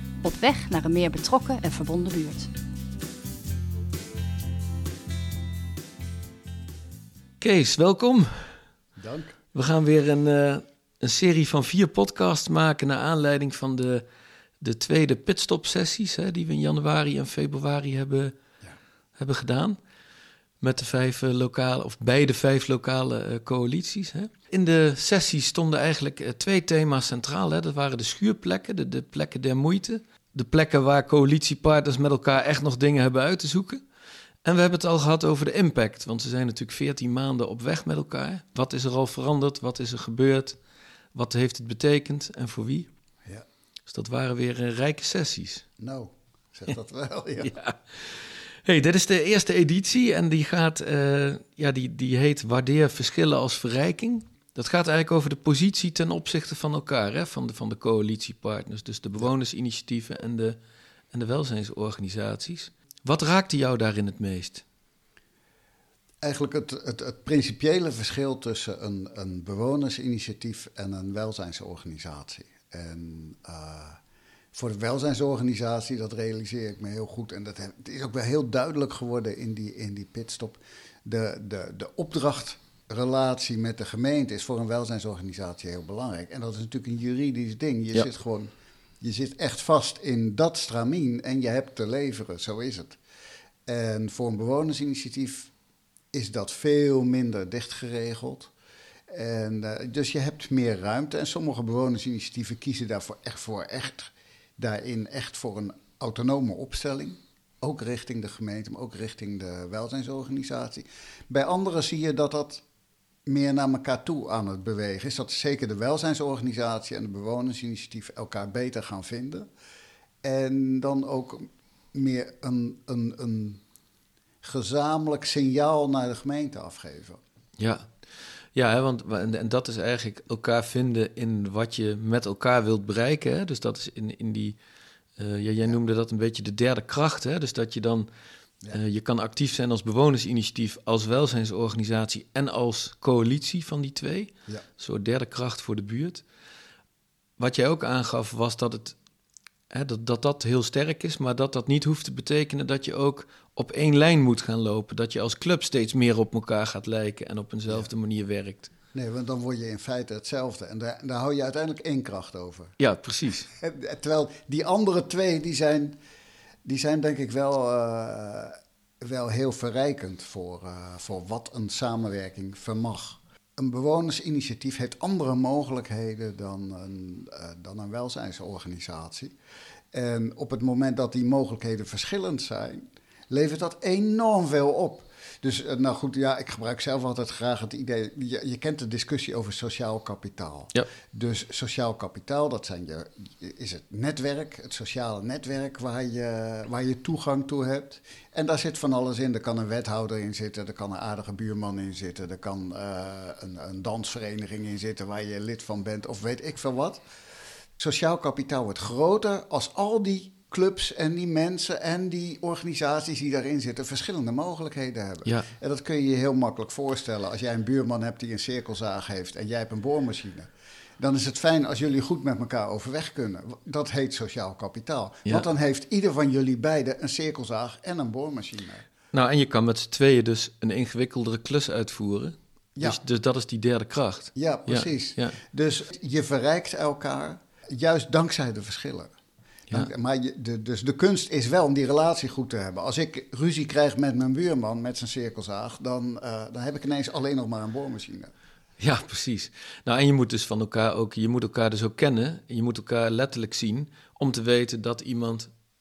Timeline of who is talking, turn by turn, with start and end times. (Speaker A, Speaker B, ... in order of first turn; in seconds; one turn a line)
Speaker A: 0.2-2.5
Speaker B: 7.4-8.5
Speaker C: 9.0-9.4
Speaker B: 9.5-14.0
Speaker B: 14.6-18.3
Speaker B: 19.2-19.8
Speaker B: 20.6-33.8
Speaker B: 34.4-40.6
Speaker B: 41.1-42.9
Speaker B: 43.9-45.6
Speaker C: 45.8-47.5
Speaker B: 47.4-60.6
Speaker B: 61.1-64.6
Speaker C: 66.2-74.0
Speaker C: 74.5-93.0
Speaker C: 93.7-95.5
Speaker C: 96.1-98.5
Speaker C: 99.1-112.6
Speaker C: 113.2-119.5
Speaker C: 120.2-123.6
Speaker C: 124.4-127.2
Speaker B: 127.6-127.8
Speaker B: 128.5-134.6
Speaker B: 135.2-138.1
Speaker B: 138.7-146.2
Speaker B: 147.4-148.9
Speaker B: 149.7-158.7
Speaker C: 158.9-162.8
Speaker B: 162.8-163.5
Speaker C: 163.4-166.0
Speaker C: 166.6-179.3
Speaker C: 179.9-207.0
Speaker C: 207.8-220.5
Speaker C: 221.0-228.8
Speaker B: 229.1-235.4
Speaker C: 234.3-239.1
Speaker C: 239.7-248.3
Speaker B: 248.8-255.5